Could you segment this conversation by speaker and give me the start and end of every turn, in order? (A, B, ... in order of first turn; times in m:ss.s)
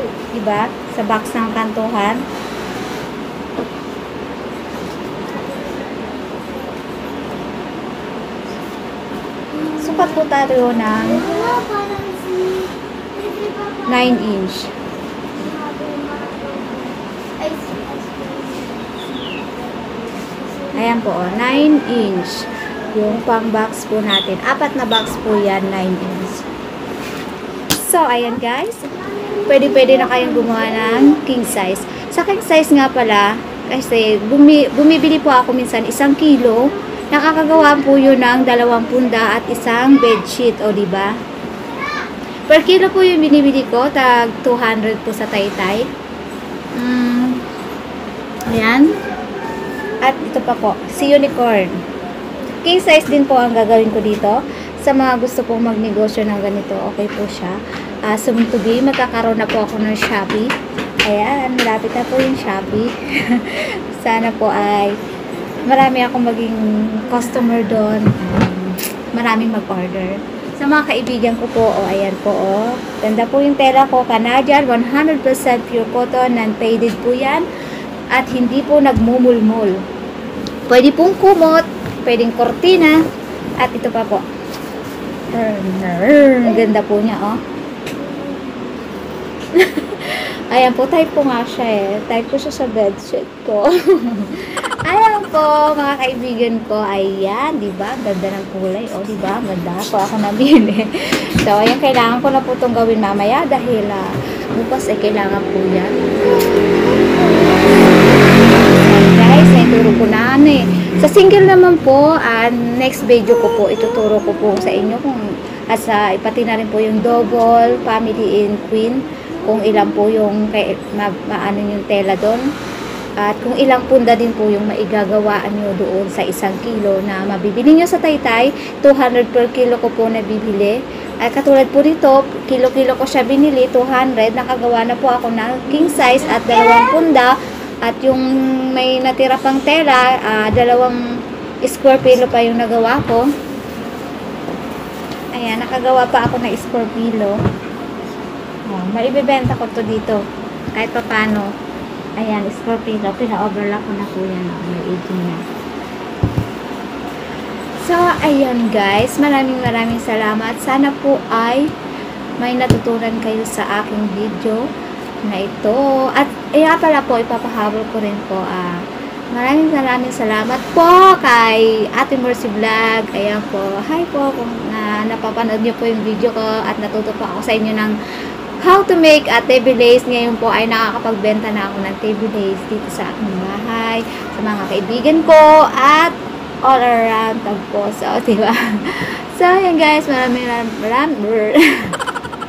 0:00.3-0:02.2 A
0:09.7-0:11.7 A
0:13.8-0:14.7 A
0:20.7-0:26.4 A
0:27.8-0:28.9 A
0:29.4-0:41.2 A
0:42.5-0:45.8 A
0:46.8-0:47.4 A
0:48.5-0:48.9 A
0:50.0-0:51.7 A
0:52.6-0:57.6 A
0:58.1-1:00.5 A
1:01.0-1:05.0 A
1:05.6-1:17.4 A
1:18.1-1:19.7 A
1:20.7-1:23.0 A
1:23.6-1:24.2 A
1:25.3-1:27.4 A
1:29.5-2:02.4 A
2:03.2-2:21.0 A
2:21.6-2:23.2 A
2:25.3-2:27.4 A
2:28.7-2:30.2 A
2:30.7-2:31.5 A
2:32.2-2:35.4 A
2:37.8-2:41.7 A
2:42.4-2:44.6 A
2:45.2-2:48.8 A
2:49.3-2:57.9 A
2:58.6-3:06.1 A
3:06.6-3:11.9 A